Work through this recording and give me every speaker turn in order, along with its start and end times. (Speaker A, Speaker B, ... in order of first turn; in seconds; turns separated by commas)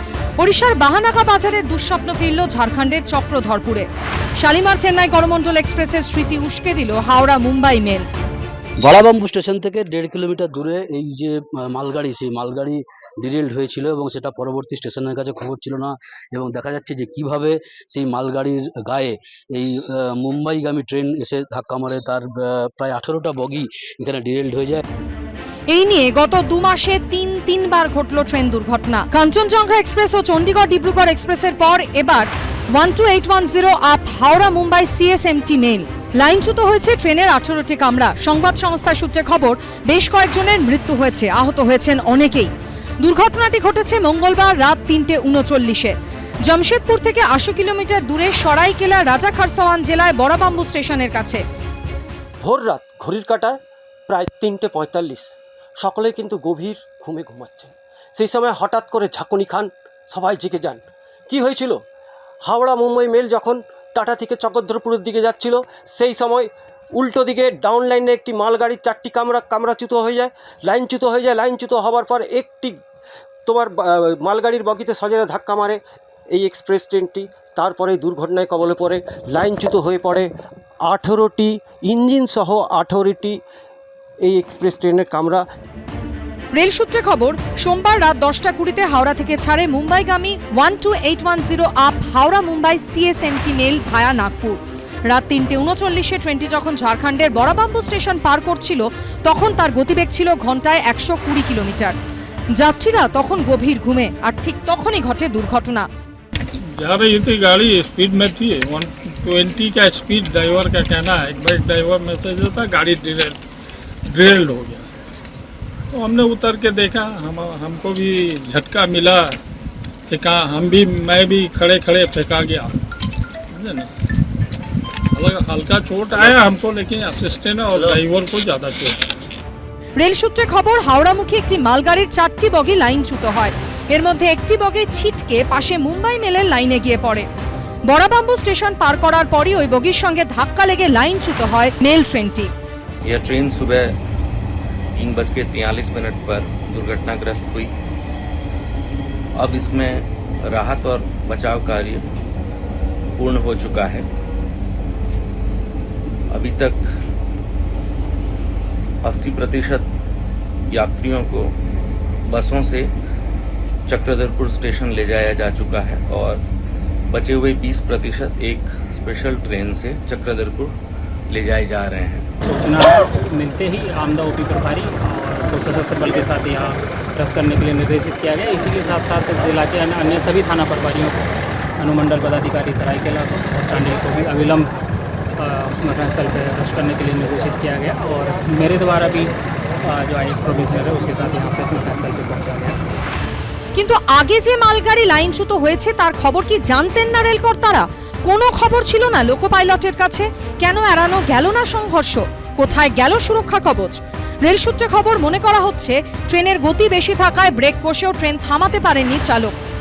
Speaker A: 0.4-3.9, Speaker A: 4.4-8.1, Speaker B: 8.8-24.8, Speaker A: 25.7-45.9, Speaker A: 46.5-51.4, Speaker C: 52.4-53.6, Speaker C: 54.1-55.3, Speaker C: 55.8-61.8, Speaker C: 62.5-72.8, Speaker C: 73.5-75.8, Speaker C: 76.3-80.3, Speaker C: 80.9-83.4, Speaker C: 84.2-85.5, Speaker A: 86.5-101.9, Speaker A: 102.6-105.9, Speaker D: 106.8-113.4, Speaker D: 114.1-114.9, Speaker D: 115.9-119.4, Speaker D: 120.1-122.7, Speaker D: 123.5-123.9, Speaker D: 125.1-129.0, Speaker A: 130.0-137.3, Speaker A: 137.9-142.5, Speaker E: 143.0-143.9, Speaker E: 144.9-147.7, Speaker E: 149.4-152.1, Speaker E: 153.2-154.1, Speaker E: 156.3-156.8, Speaker E: 159.0-159.9, Speaker E: 160.7-161.5, Speaker E: 162.3-162.9, Speaker E: 163.9-166.4, Speaker E: 167.1-170.8, Speaker E: 171.3-172.3, Speaker F: 172.5-181.2, Speaker F: 181.8-184.7, Speaker F: 185.4-189.3, Speaker F: 189.8-192.8, Speaker A: 193.8-209.5